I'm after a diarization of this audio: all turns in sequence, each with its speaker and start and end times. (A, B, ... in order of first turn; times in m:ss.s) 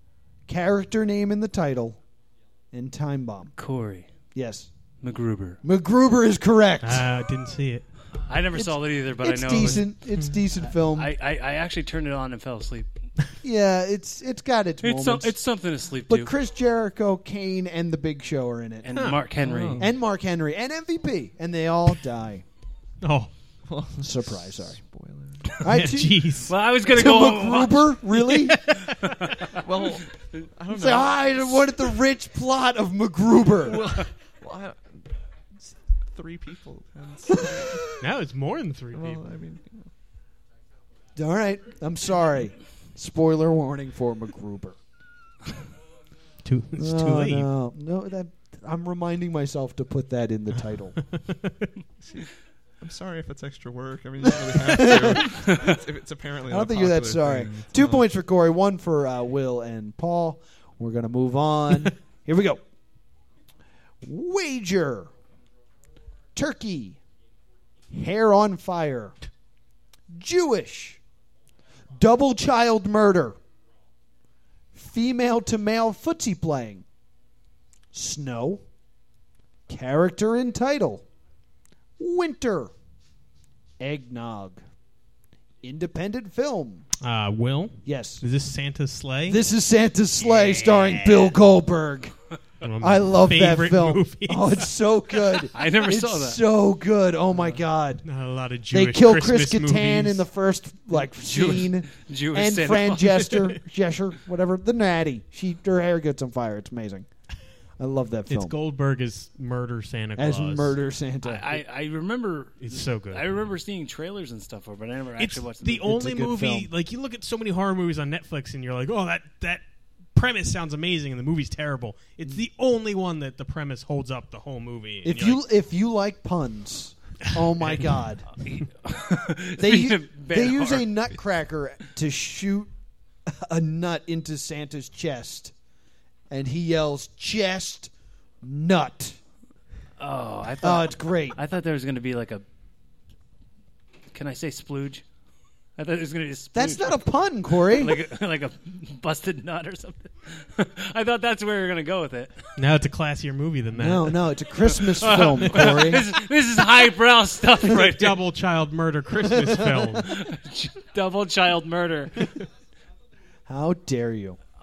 0:00.5-0:02.0 A
0:02.7-0:03.5 A
0:03.6-0:04.1 B
0:04.4-0:04.7 A
0:05.0-0:05.6 B
0:05.6-0:07.1 A
0:06.8-0:07.9 C
0:08.3-0:09.9 B
0:08.5-0:11.1 A
0:10.7-0:12.9 B
0:13.4-0:15.4 A
0:14.8-0:16.3 B
0:16.1-0:18.9 A
0:18.8-0:19.8 B
0:19.4-0:19.9 D
0:19.8-0:22.4 A
0:23.0-0:23.3 C
0:23.7-0:25.6 D
0:24.0-0:24.8 A
0:25.6-0:26.2 A
0:25.6-0:26.5 C
0:26.5-0:28.0 B
0:26.8-0:28.6 A
0:28.3-0:29.0 C
0:28.9-0:29.6 B
0:29.6-0:31.4 D
0:30.7-0:33.8 A
0:33.7-0:35.1 D
0:35.6-0:38.0 D
0:38.0-0:39.2 C
0:38.9-0:39.9 D
0:41.2-0:44.8 A
0:46.4-0:47.5 C
0:46.8-0:51.0 A
0:52.0-0:58.0 D
0:54.5-0:55.7 A
0:56.5-1:02.6 A
1:04.0-1:05.1 A
1:06.4-1:07.0 A
1:07.9-1:09.1 A
1:10.1-1:11.0 A
1:12.0-1:13.4 A
1:14.7-1:16.8 A
1:17.9-1:18.6 A
1:19.7-1:21.0 A
1:22.0-1:22.7 A
1:23.8-1:24.6 A
1:25.6-1:26.9 A
1:27.0-1:29.4 C
1:27.8-1:28.2 A
1:29.3-1:32.1 A
1:30.4-1:31.3 C
1:32.6-1:34.6 C
1:32.8-1:38.0 A
1:35.5-1:36.4 B
1:38.0-1:40.2 C
1:38.7-1:47.1 A
1:41.2-1:43.5 B
1:47.8-1:48.6 A
1:48.3-1:50.8 C
1:50.2-1:51.6 A
1:51.2-1:55.9 B
1:52.6-1:53.3 C
1:55.2-1:59.6 C
1:55.8-1:56.7 A
2:00.2-2:05.4 C
2:05.0-2:08.2 A
2:08.4-2:10.9 B
2:09.6-2:12.7 A
2:13.3-2:15.5 A
2:16.3-2:17.9 A
2:18.4-2:19.2 A
2:20.0-2:22.4 B
2:20.6-2:21.4 A
2:24.1-2:25.0 B
2:25.8-2:27.0 B
2:26.5-2:28.0 A
2:27.6-2:32.5 B
2:32.6-2:34.2 C
2:33.8-2:36.1 A
2:34.8-2:38.2 B
2:37.7-2:40.1 C
2:39.3-2:40.0 A
2:40.0-2:42.4 B
2:43.5-2:44.4 A